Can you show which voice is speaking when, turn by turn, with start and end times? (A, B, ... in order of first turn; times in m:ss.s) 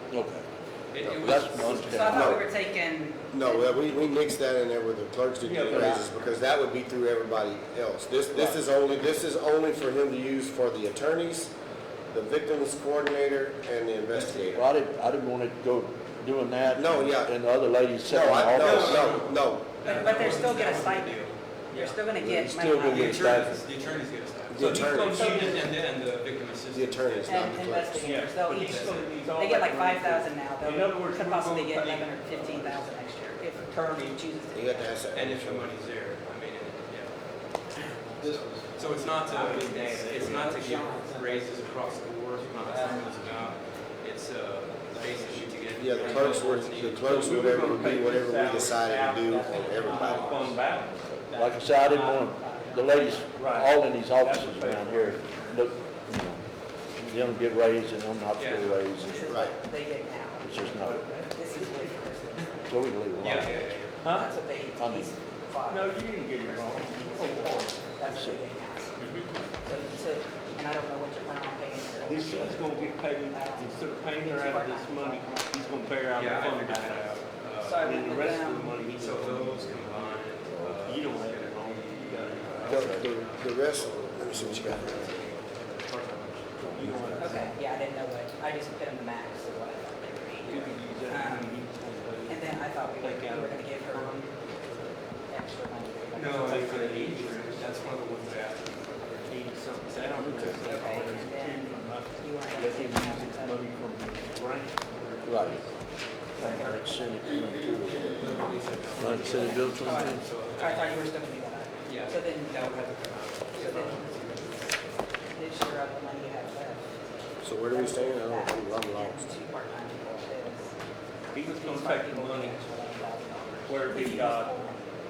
0:00.1-0:00.4 A
0:00.9-0:02.0 B
0:01.0-0:01.3 C
0:01.1-0:02.4 A
0:01.7-0:03.9 D
0:02.0-0:02.4 C
0:03.3-0:11.5 C
0:05.4-0:06.3 E
0:05.7-0:06.0 A
0:08.3-0:08.6 A
0:12.1-0:14.6 C
0:14.4-0:19.2 A
0:16.7-0:17.3 C
0:18.1-0:19.7 C
0:18.6-0:22.0 B
0:19.8-0:23.4 D
0:22.2-0:23.6 A
0:22.8-0:27.8 B
0:24.5-0:25.5 C
0:24.6-0:25.7 E
0:25.0-0:25.6 D
0:26.7-0:28.0 C
0:27.2-0:35.0 D
0:28.0-0:32.8 E
0:28.5-0:29.0 B
0:33.7-0:34.1 E
0:34.5-0:35.7 C
0:35.1-0:37.1 B
0:37.7-0:47.7 B
0:38.2-0:41.4 E
0:39.3-0:41.3 D
0:42.6-0:43.5 E
0:42.8-0:43.1 D
0:45.0-0:52.2 E
0:45.8-0:50.5 C
0:49.8-0:50.6 B
0:50.0-0:50.3 D
0:51.1-0:56.4 A
0:51.3-0:53.6 D
0:53.3-0:55.7 E
0:57.0-0:59.3 A
0:58.4-0:58.9 B
0:59.0-1:02.7 D
0:59.3-0:59.5 C
1:00.4-1:01.1 A
1:00.6-1:02.0 E
1:02.7-1:03.6 A
1:03.2-1:04.0 B
1:04.0-1:04.3 E
1:04.0-1:09.0 D
1:04.8-1:05.1 A
1:05.6-1:08.0 E
1:08.1-1:08.4 A
1:09.0-1:09.2 E
1:09.6-1:16.0 D
1:12.0-1:17.2 E
1:16.1-1:18.3 B
1:17.6-1:18.8 D
1:17.8-1:20.2 E
1:18.9-1:26.9 B
1:20.5-1:20.9 A
1:20.8-1:23.1 E
1:22.7-1:23.0 A
1:22.7-1:25.0 C
1:24.3-1:25.0 A
1:26.6-1:27.6 E
1:26.6-1:27.4 A
1:27.2-1:31.6 D
1:30.4-1:31.2 B
1:30.4-1:34.1 E
1:32.3-1:34.3 D
1:35.3-1:36.8 D
1:36.1-1:41.2 B
1:36.4-1:37.7 E
1:39.3-1:45.7 E
1:40.2-1:40.6 A
1:40.6-1:43.6 D
1:45.2-1:45.6 A
1:46.4-1:46.8 E
1:46.4-1:50.2 A
1:46.4-1:47.0 D
1:47.9-1:51.0 B
1:49.3-1:52.7 D
1:51.8-1:54.9 B
1:53.5-1:54.3 D
1:55.3-1:57.0 D
1:57.4-1:59.2 C
1:57.6-2:00.7 D
2:01.3-2:02.6 E
2:01.3-2:04.9 D
2:03.7-2:04.6 E